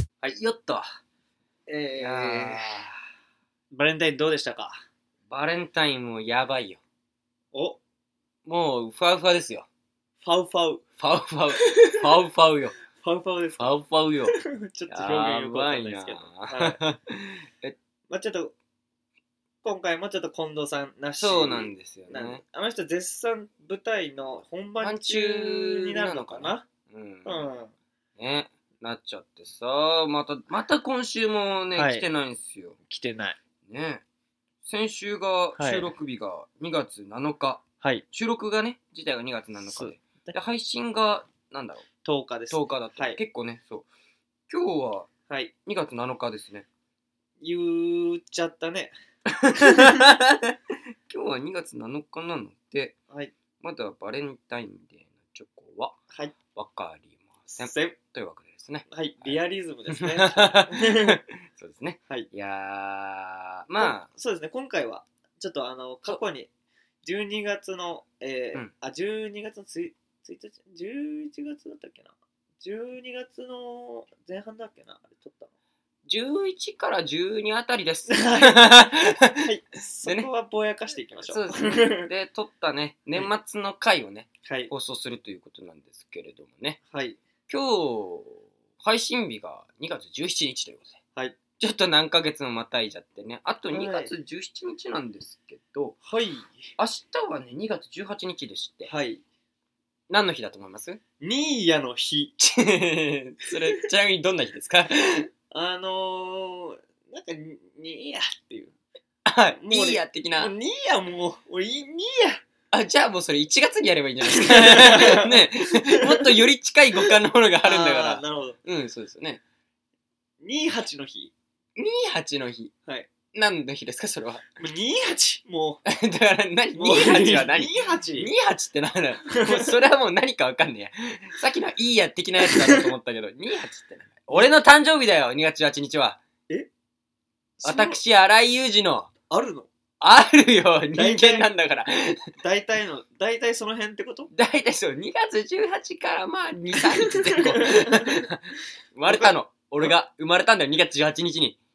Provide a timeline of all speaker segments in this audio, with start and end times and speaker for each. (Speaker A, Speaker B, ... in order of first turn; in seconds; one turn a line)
Speaker A: 0.2-0.9
Speaker B: 1.7-2.9
Speaker A: 2.0-2.9
Speaker B: 3.7-4.8
Speaker A: 5.3-6.8
Speaker B: 7.5-7.8
Speaker A: 8.4-9.7
Speaker B: 10.2-10.8
Speaker A: 11.0-12.7
Speaker B: 11.6-12.0
Speaker B: 12.9-16.8
Speaker A: 13.6-14.3
Speaker A: 14.9-17.8
Speaker B: 18.1-18.6
Speaker B: 19.6-26.6
Speaker A: 21.2-22.4
Speaker A: 24.8-27.5
Speaker B: 27.2-27.7
Speaker A: 28.2-32.8
Speaker B: 31.7-32.1
Speaker B: 32.9-33.4
Speaker A: 33.7-34.0
Speaker A: 34.6-41.9
Speaker B: 35.6-35.9
Speaker B: 39.6-40.4
Speaker B: 42.0-43.2
Speaker A: 42.5-43.9
Speaker A: 44.5-45.1
Speaker A: 45.6-46.7
Speaker B: 47.4-48.9
Speaker A: 49.3-50.5
Speaker B: 49.6-50.0
Speaker A: 51.1-53.0
Speaker A: 53.6-56.0
Speaker B: 56.1-56.4
Speaker A: 56.5-64.1
Speaker B: 57.5-58.0
Speaker B: 58.9-61.2
Speaker B: 63.8-66.5
Speaker B: 67.0-75.5
Speaker A: 76.1-79.5
Speaker B: 78.1-82.1
Speaker A: 80.0-80.3
Speaker A: 81.3-86.8
Speaker B: 84.4-84.7
Speaker B: 86.9-87.2
Speaker A: 87.5-91.0
Speaker A: 91.6-96.0
Speaker B: 93.7-94.1
Speaker B: 96.0-96.7
Speaker A: 96.8-98.9
Speaker B: 98.9-99.2
Speaker A: 100.1-101.0
Speaker B: 101.2-102.4
Speaker A: 102.4-105.3
Speaker B: 105.5-108.8
Speaker A: 109.3-110.5
Speaker B: 109.6-112.4
Speaker A: 112.7-119.4
Speaker B: 114.2-116.3
Speaker B: 117.6-118.6
Speaker B: 120.4-121.3
Speaker A: 121.8-122.7
Speaker A: 123.3-124.4
Speaker B: 124.6-125.8
Speaker A: 125.9-136.2
Speaker B: 126.8-128.3
Speaker B: 129.3-129.7
Speaker B: 132.4-132.9
Speaker B: 137.6-138.0
Speaker A: 137.6-139.1
Speaker B: 139.3-139.7
Speaker A: 140.0-142.3
Speaker B: 140.9-141.5
Speaker B: 142.4-144.3
Speaker A: 144.3-151.6
Speaker B: 146.9-148.1
Speaker B: 149.1-149.9